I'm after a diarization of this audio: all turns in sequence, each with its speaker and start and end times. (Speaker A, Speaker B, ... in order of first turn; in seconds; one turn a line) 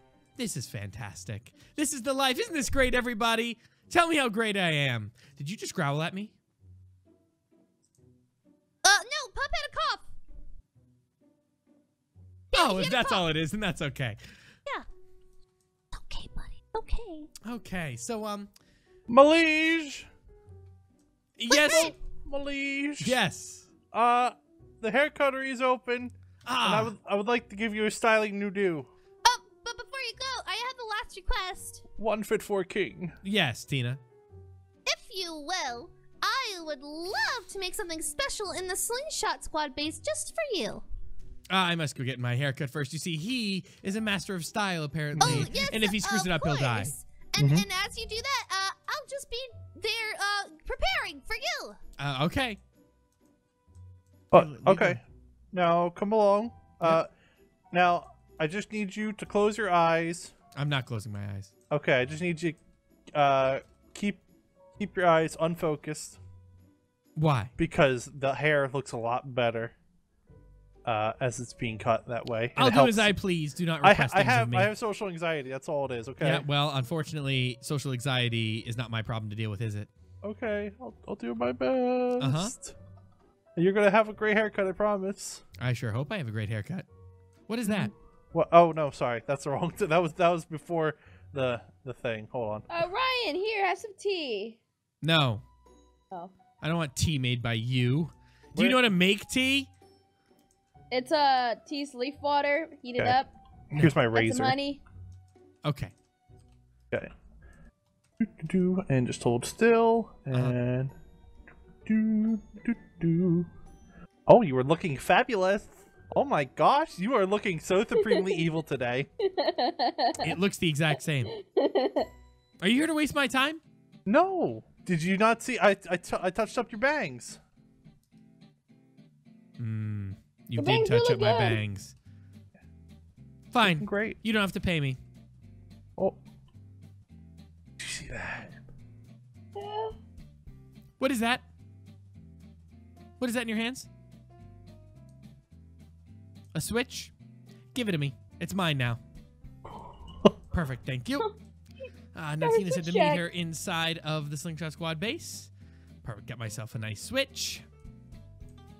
Speaker A: 0.3-6.3
Speaker B: 8.8-10.1
Speaker B: 12.5-13.2
Speaker A: 12.5-14.2
Speaker B: 15.9-17.3
Speaker A: 17.4-18.5
Speaker C: 19.1-20.1
Speaker A: 21.4-21.9
Speaker B: 21.5-21.9
Speaker C: 21.7-23.2
Speaker A: 23.0-23.7
Speaker C: 23.9-28.9
Speaker A: 26.4-26.9
Speaker B: 29.2-31.8
Speaker C: 32.0-33.2
Speaker A: 33.2-34.0
Speaker B: 34.9-40.8
Speaker A: 41.5-46.9
Speaker C: 45.1-45.5
Speaker B: 45.2-51.8
Speaker C: 47.4-47.6
Speaker A: 52.0-52.6
Speaker C: 54.3-55.0
Speaker A: 54.3-55.0
Speaker C: 55.5-57.1
Speaker C: 57.7-60.3
Speaker A: 60.5-61.5
Speaker C: 61.7-62.6
Speaker C: 63.1-64.2
Speaker C: 64.8-66.2
Speaker A: 67.2-67.5
Speaker C: 67.6-69.7
Speaker C: 70.8-73.1
Speaker A: 72.5-74.7
Speaker C: 73.8-76.5
Speaker A: 76.2-79.9
Speaker C: 80.2-82.8
Speaker A: 82.2-82.5
Speaker C: 83.5-85.4
Speaker A: 85.6-86.9
Speaker A: 87.5-87.9
Speaker C: 87.7-92.7
Speaker D: 92.7-94.6
Speaker A: 95.0-95.4
Speaker A: 96.6-99.7
Speaker C: 98.5-98.8
Speaker D: 100.9-103.3
Speaker C: 103.0-104.5
Speaker D: 104.1-104.8
Speaker A: 105.6-105.9
Speaker C: 108.2-110.9
Speaker C: 111.8-113.5
Speaker C: 114.3-119.1
Speaker D: 118.0-118.4
Speaker D: 119.2-120.3
Speaker A: 120.2-121.3
Speaker D: 121.3-122.1
Speaker A: 122.6-123.6
Speaker C: 124.0-127.4
Speaker A: 129.6-131.9
Speaker D: 130.6-131.6
Speaker A: 133.5-135.0
Speaker C: 133.6-134.2
Speaker C: 137.8-138.6
Speaker D: 139.6-139.9
Speaker A: 141.0-141.4
Speaker A: 143.2-143.9
Speaker A: 146.5-147.1
Speaker A: 147.7-149.0
Speaker A: 150.5-151.3
Speaker A: 152.1-155.5
Speaker D: 152.4-153.2
Speaker A: 156.0-157.6